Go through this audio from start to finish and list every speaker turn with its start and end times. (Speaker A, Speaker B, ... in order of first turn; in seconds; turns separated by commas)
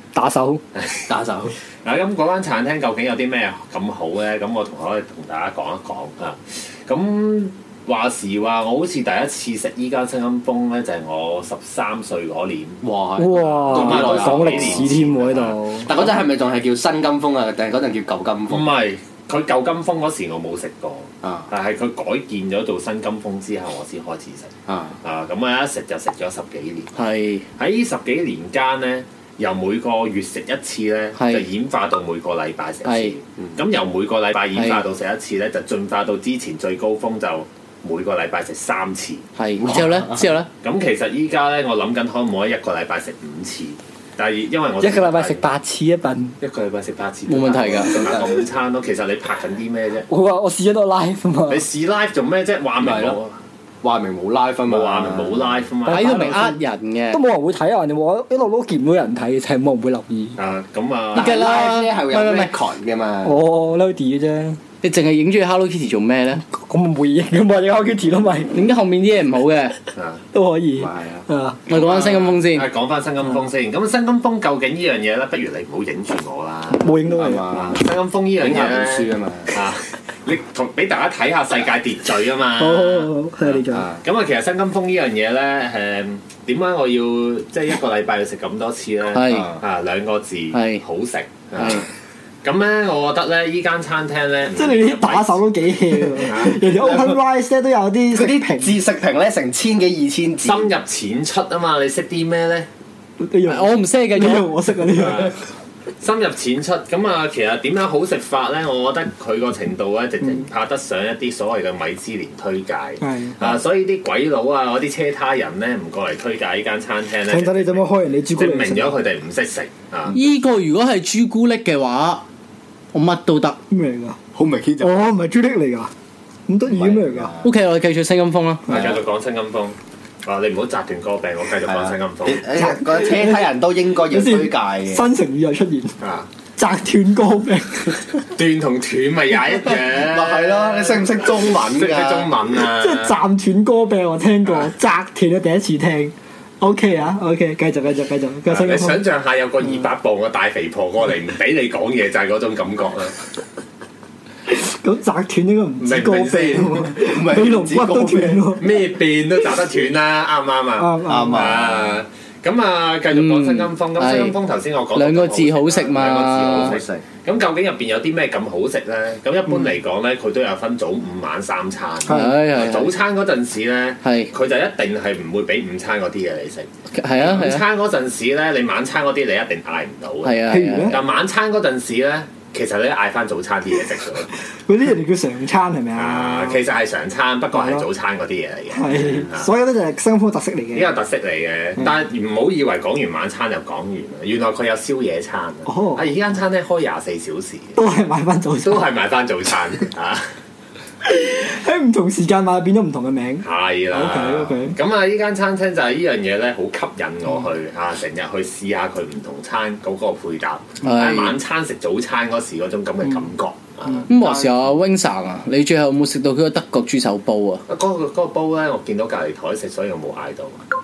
Speaker A: 0.1-0.6, Speaker B: 0.8-1.1, Speaker C: 1.1-1.6, Speaker B: 1.8-12.8, Speaker C: 12.8-14.9, Speaker A: 13.2-15.9, Speaker B: 13.6-15.6, Speaker C: 15.8-18.7, Speaker B: 18.5-26.9, Speaker C: 21.2-21.5, Speaker C: 24.7-25.0, Speaker D: 26.9-27.4, Speaker B: 27.6-39.2, Speaker D: 31.2-31.4, Speaker D: 32.8-33.1, Speaker D: 34.5-34.8, Speaker D: 39.4-40.5, Speaker C: 39.7-40.2, Speaker B: 40.6-45.4, Speaker A: 44.8-46.4, Speaker B: 46.4-50.1, Speaker D: 47.3-48.1, Speaker C: 48.0-48.4, Speaker A: 50.1-51.6, Speaker B: 51.5-53.4, Speaker C: 52.8-53.2, Speaker C: 53.8-55.6, Speaker B: 54.7-56.4, Speaker D: 55.9-57.2, Speaker A: 55.9-60.4, Speaker B: 60.4-61.4, Speaker C: 61.1-63.4, Speaker D: 61.2-62.5, Speaker A: 63.2-64.6, Speaker D: 64.8-66.4, Speaker A: 66.5-68.6, Speaker D: 68.5-69.8, Speaker B: 69.9-70.2, Speaker A: 70.3-71.6, Speaker C: 70.8-71.2, Speaker D: 71.7-72.7, Speaker B: 71.7-77.0, Speaker A: 76.8-77.5, Speaker C: 77.1-77.8, Speaker B: 77.5-91.9, Speaker C: 78.4-79.6, Speaker A: 82.6-83.9, Speaker C: 83.7-84.0, Speaker D: 89.1-89.5, Speaker C: 89.3-89.6, Speaker D: 90.5-90.8, Speaker D: 91.6-91.8, Speaker B: 92.4-95.4, Speaker A: 94.5-98.8, Speaker B: 96.3-96.6, Speaker C: 96.6-97.2, Speaker C: 98.1-100.7, Speaker B: 100.4-102.7, Speaker A: 103.2-105.3, Speaker D: 103.5-104.5, Speaker B: 105.0-105.4, Speaker B: 106.0-120.2, Speaker A: 113.0-113.5, Speaker A: 117.3-119.0, Speaker D: 120.1-122.2, Speaker D: 122.9-123.6, Speaker A: 123.7-124.2, Speaker C: 124.3-125.0, Speaker A: 124.8-125.9, Speaker A: 126.5-127.3, Speaker C: 126.7-127.5, Speaker D: 127.4-128.6, Speaker B: 128.7-132.5, Speaker C: 128.7-129.0, Speaker C: 131.6-135.1, Speaker A: 132.6-133.5, Speaker A: 134.1-135.9, Speaker B: 136.0-136.3, Speaker A: 136.6-138.0, Speaker B: 138.3-143.2, Speaker C: 140.0-142.3, Speaker A: 142.7-149.0, Speaker B: 148.5-153.2, Speaker A: 154.5-158.7, Speaker B: 155.8-156.7, Speaker C: 156.3-158.5, Speaker B: 158.6-184.3, Speaker A: 160.8-161.6, Speaker C: 161.1-162.0, Speaker D: 163.1-164.4, Speaker D: 164.9-166.8, Speaker C: 166.5-167.0, Speaker D: 172.1-172.9, Speaker D: 174.0-174.3, Speaker D: 176.9-177.6, Speaker D: 180.2-181.0, Speaker A: 180.5-181.0, Speaker A: 184.5-186.6, Speaker B: 186.0-189.5, Speaker A: 187.5-187.9, Speaker A: 188.7-190.9, Speaker B: 190.7-197.8, Speaker A: 195.7-196.1, Speaker A: 197.8-198.9, Speaker B: 198.6-200.2, Speaker A: 201.0-204.8, Speaker B: 203.4-214.1, Speaker D: 210.8-211.3, Speaker D: 214.1-217.6, Speaker C: 214.1-214.7, Speaker B: 217.7-220.6